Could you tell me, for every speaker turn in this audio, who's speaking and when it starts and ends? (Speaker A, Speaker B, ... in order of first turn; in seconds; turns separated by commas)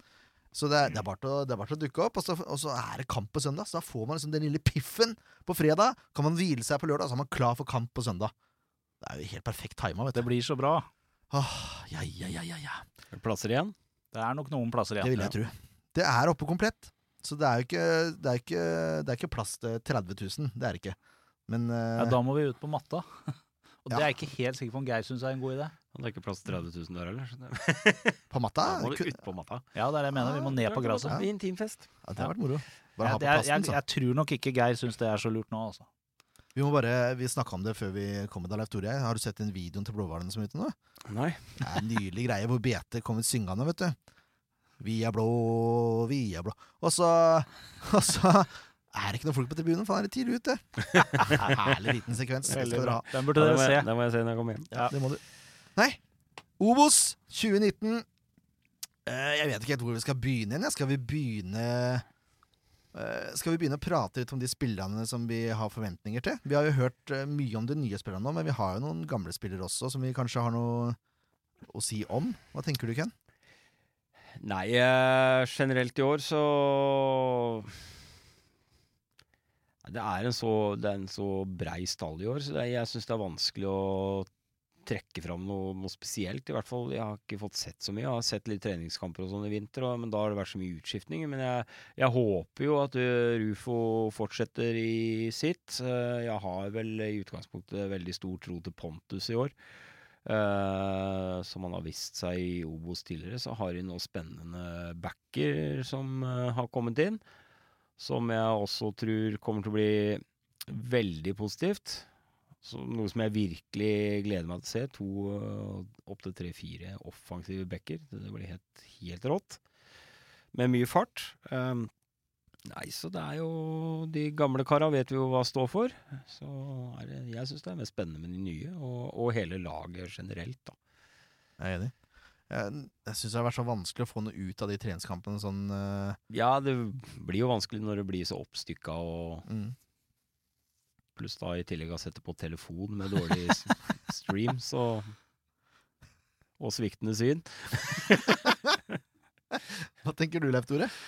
Speaker A: 0.5-8.3, Speaker A: 9.0-10.3, Speaker B: 10.2-10.9, Speaker A: 11.3-12.8, Speaker C: 13.1-13.7, Speaker B: 14.1-15.3, Speaker A: 15.0-21.0, Speaker A: 21.5-22.2, Speaker B: 22.0-25.7, Speaker C: 25.9-29.7, Speaker A: 28.3-29.2, Speaker B: 29.8-31.2, Speaker C: 30.5-31.9, Speaker A: 32.0-33.8, Speaker B: 33.0-35.9, Speaker A: 36.5-40.8, Speaker C: 41.1-41.6, Speaker A: 41.6-44.0, Speaker A: 44.8-53.0, Speaker C: 51.0-51.8, Speaker B: 52.5-53.9, Speaker C: 52.8-54.7, Speaker A: 54.7-55.2, Speaker A: 56.6-58.1, Speaker A: 59.1-62.0, Speaker A: 62.9-71.0, Speaker A: 71.7-73.1, Speaker C: 74.4-77.8, Speaker C: 79.8-84.3, Speaker C: 84.8-99.5, Speaker C: 100.2-107.2, Speaker C: 108.0-112.1, Speaker C: 112.6-119.6, Speaker C: 120.5-121.9, Speaker C: 122.7-130.8, Speaker A: 131.6-131.9, Speaker A: 132.5-136.2, Speaker C: 136.3-139.5, Speaker A: 139.5-139.8, Speaker C: 141.2-145.1, Speaker C: 146.6-148.9, Speaker A: 149.5-150.9